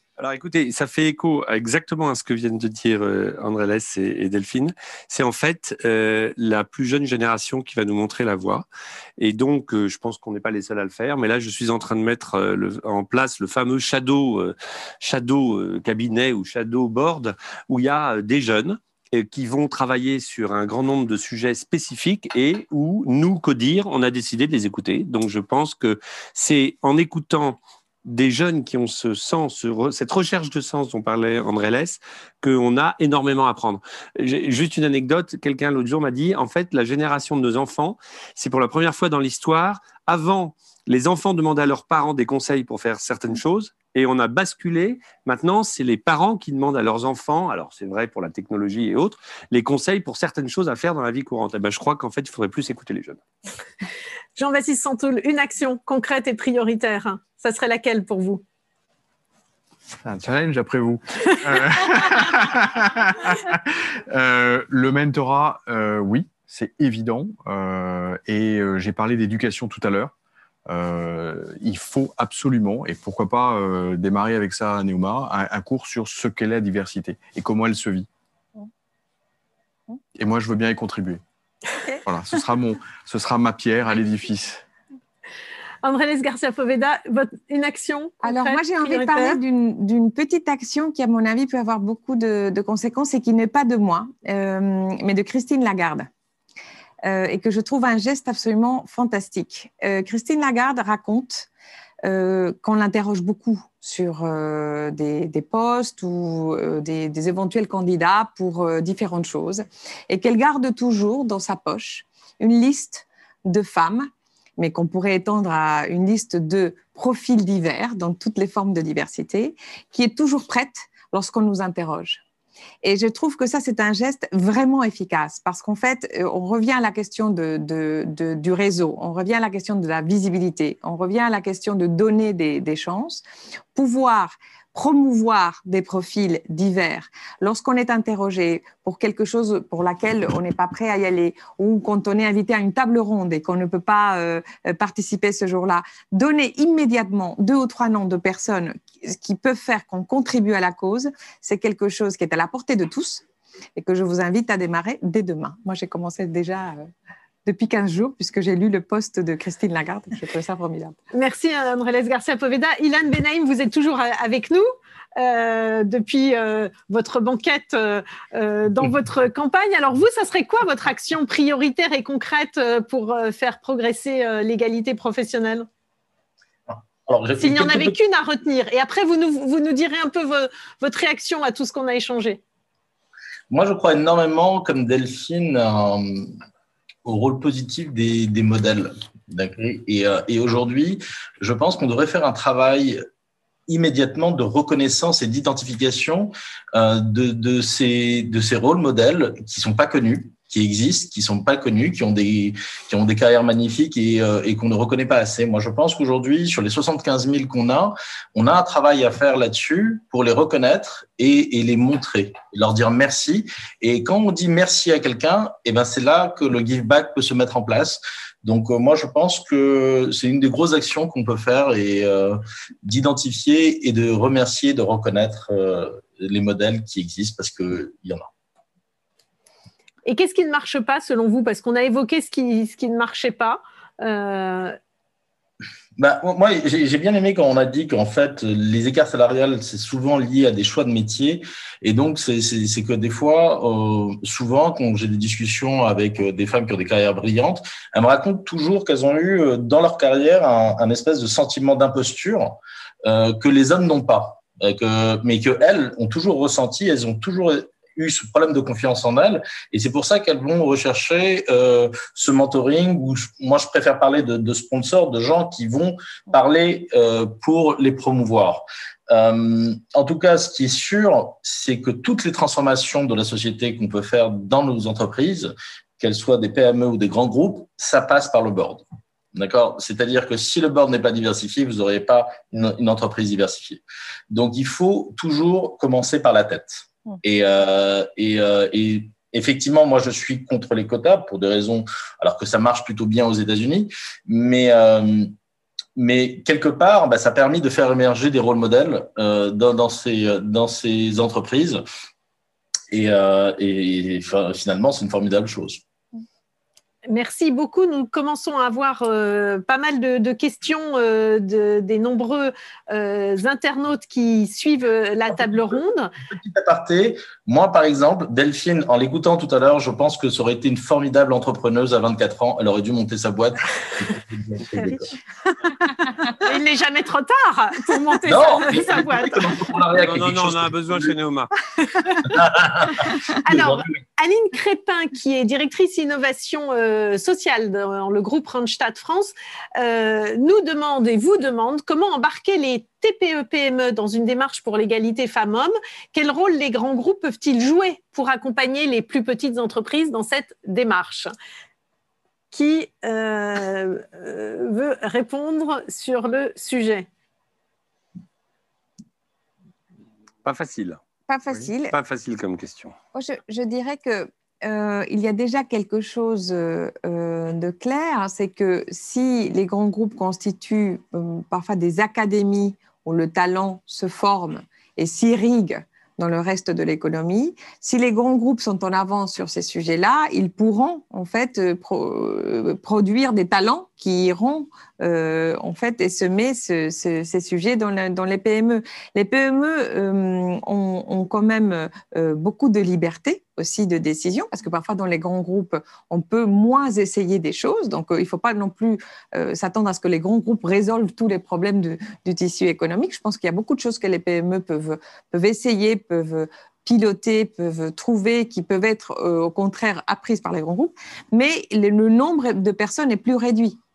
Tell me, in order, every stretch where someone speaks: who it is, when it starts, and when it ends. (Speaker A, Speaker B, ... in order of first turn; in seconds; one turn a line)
Speaker A: 0.2-8.7
Speaker A: 9.2-53.2
Speaker B: 54.4-58.4
Speaker C: 60.0-70.1
Speaker C: 70.7-78.1
Speaker C: 80.1-81.2
Speaker C: 82.0-84.6
Speaker B: 85.8-89.4
Speaker D: 88.2-96.1
Speaker D: 97.0-101.5
Speaker D: 102.0-122.2
Speaker D: 122.8-133.2
Speaker D: 133.7-153.2
Speaker D: 153.8-156.9
Speaker D: 157.4-161.0
Speaker B: 161.1-175.7
Speaker E: 176.7-177.9
Speaker B: 177.4-182.4
Speaker E: 183.5-186.3
Speaker E: 187.0-193.0
Speaker E: 193.7-228.3
Speaker B: 230.1-234.8
Speaker E: 236.0-295.3
Speaker E: 295.9-301.8
Speaker E: 302.9-305.8
Speaker B: 307.1-316.1
Speaker E: 316.3-325.1
Speaker B: 325.5-329.6
Speaker E: 328.3-331.1
Speaker A: 330.0-331.5
Speaker B: 331.8-332.3
Speaker E: 332.2-333.9
Speaker B: 333.4-351.3
Speaker B: 352.5-357.1
Speaker A: 360.4-361.0
Speaker D: 361.3-361.9
Speaker A: 361.9-362.9
Speaker D: 363.1-413.8